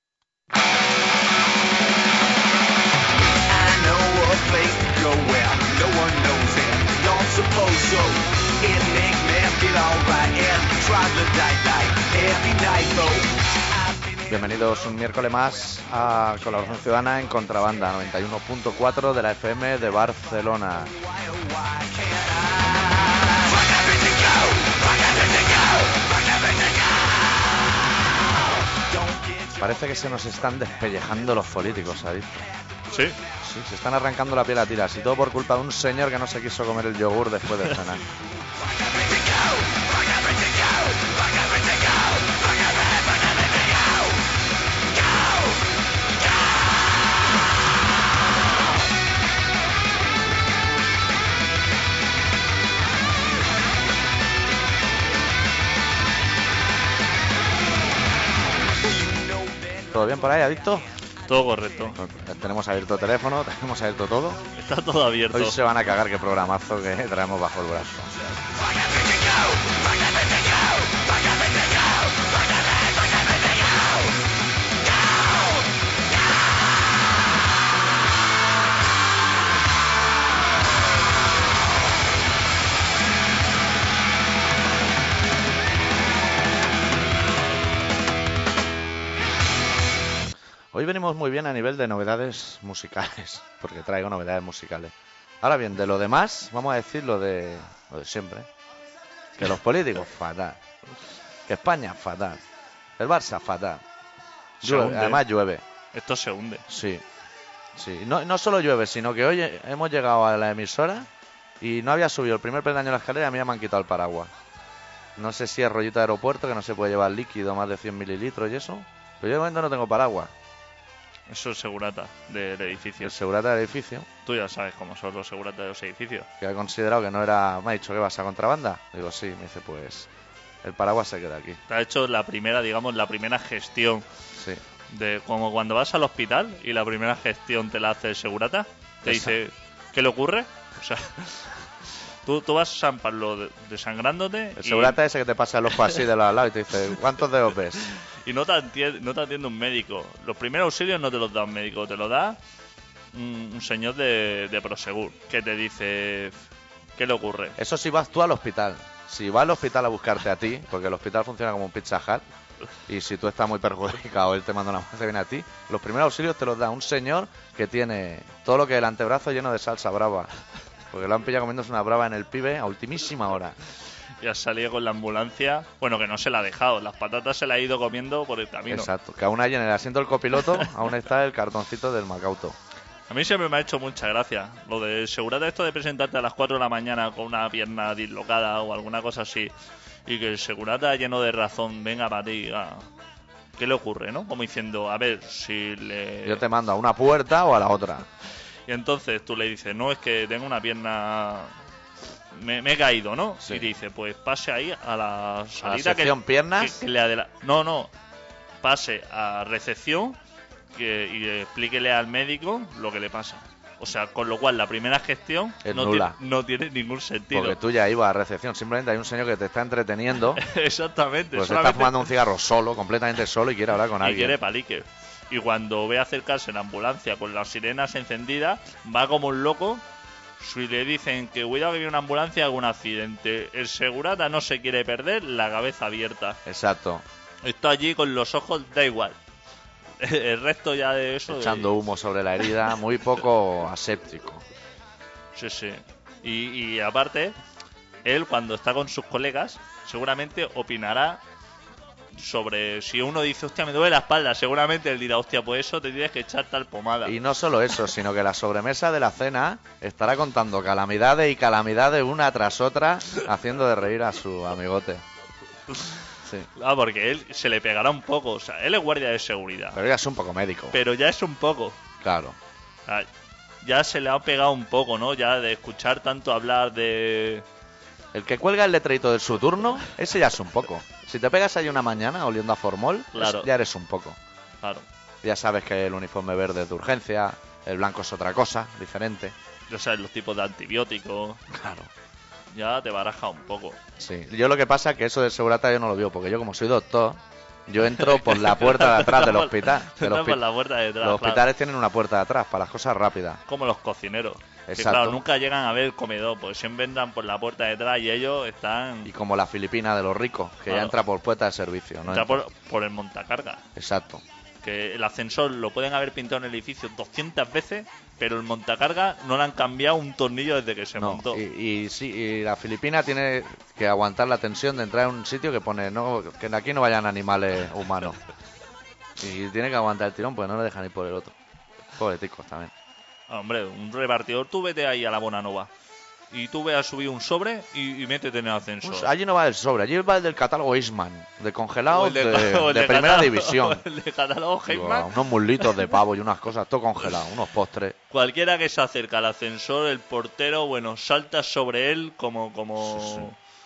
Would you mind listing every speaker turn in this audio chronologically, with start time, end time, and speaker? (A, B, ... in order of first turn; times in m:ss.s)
0:03.5-0:14.3 A
0:14.3-0:20.9 B
0:20.9-0:27.5 A
0:28.7-0:30.7 A
0:29.6-0:32.5 B
0:32.9-0:33.2 C
0:33.4-0:38.0 B
0:38.6-0:43.9 A
0:58.9-0:59.9 A
0:59.9-1:00.9 B
1:01.3-1:02.0 C
1:02.0-1:04.4 B
1:04.6-1:05.6 C
1:05.3-1:08.1 B
1:08.8-1:10.6 A
1:30.7-1:38.5 B
1:39.4-1:40.6 B
1:41.5-1:42.4 B
1:43.0-1:43.8 B
1:44.6-1:45.6 B
1:44.6-1:45.2 C
1:45.9-1:46.7 C
1:46.7-1:47.0 B
1:47.7-1:51.1 B
1:51.6-1:54.3 B
1:55.2-2:00.3 B
2:01.3-2:03.2 C
2:03.0-2:04.1 B
2:04.2-2:06.3 C
2:06.4-2:10.1 B
2:10.6-2:11.6 B
2:11.7-2:14.1 C
2:14.9-2:21.6 C
2:19.0-2:19.4 B
2:22.2-2:25.0 C
2:24.6-2:27.8 B
2:28.0-2:32.4 C
2:33.1-2:36.4 C
2:37.0-2:37.6 C
2:37.6-2:42.2 B
2:42.9-2:50.3 B
2:50.9-2:53.6 B
2:54.2-2:58.9 C
2:58.7-3:02.6 B
3:03.1-3:09.5 C
3:10.1-3:12.9 C
3:13.6-3:16.4 C
3:16.2-3:18.1 B
3:18.7-3:21.5 C
3:22.3-3:27.9 C
3:23.4-3:23.7 B
3:25.6-3:26.8 B
3:28.6-3:30.2 C
3:30.7-3:37.6 C
3:35.6-3:36.2 B
3:37.3-3:40.4 B
3:40.4-3:42.1 C
3:41.3-3:44.4 B
3:44.0-3:49.8 C
3:50.4-3:56.4 C
3:56.4-3:57.0 B
3:57.4-3:59.2 C
4:00.0-4:01.7 C
4:01.3-4:04.4 B
4:05.4-4:07.4 C
4:08.0-4:11.2 C
4:12.2-4:17.2 C
4:17.0-4:25.0 B
4:26.6-4:29.8 C
4:29.8-4:30.8 B
4:30.7-4:31.8 C
4:32.0-4:32.4 B
4:33.6-4:37.4 C
4:38.1-4:44.2 B
4:43.1-4:43.5 C
4:45.2-4:49.4 B
4:49.7-4:51.4 C
4:51.5-4:51.9 B
4:52.5-4:53.8 C
4:54.0-5:00.4 B
4:57.8-5:01.5 C
5:01.0-5:03.4 B
5:03.5-5:09.1 C
5:04.7-5:05.2 B
5:09.0-5:12.4 B
5:10.7-5:11.0 C
5:12.1-5:13.6 C
5:13.8-5:14.2 B
5:14.6-5:21.4 C
5:21.0-5:28.2 B
5:29.2-5:31.4 B
5:32.0-5:32.7 B
5:33.3-5:35.7 C
5:36.3-5:39.1 C
5:38.8-5:43.8 B
5:41.9-5:45.6 C
5:44.7-5:48.0 B
5:48.1-5:53.4 C
5:52.8-5:53.3 B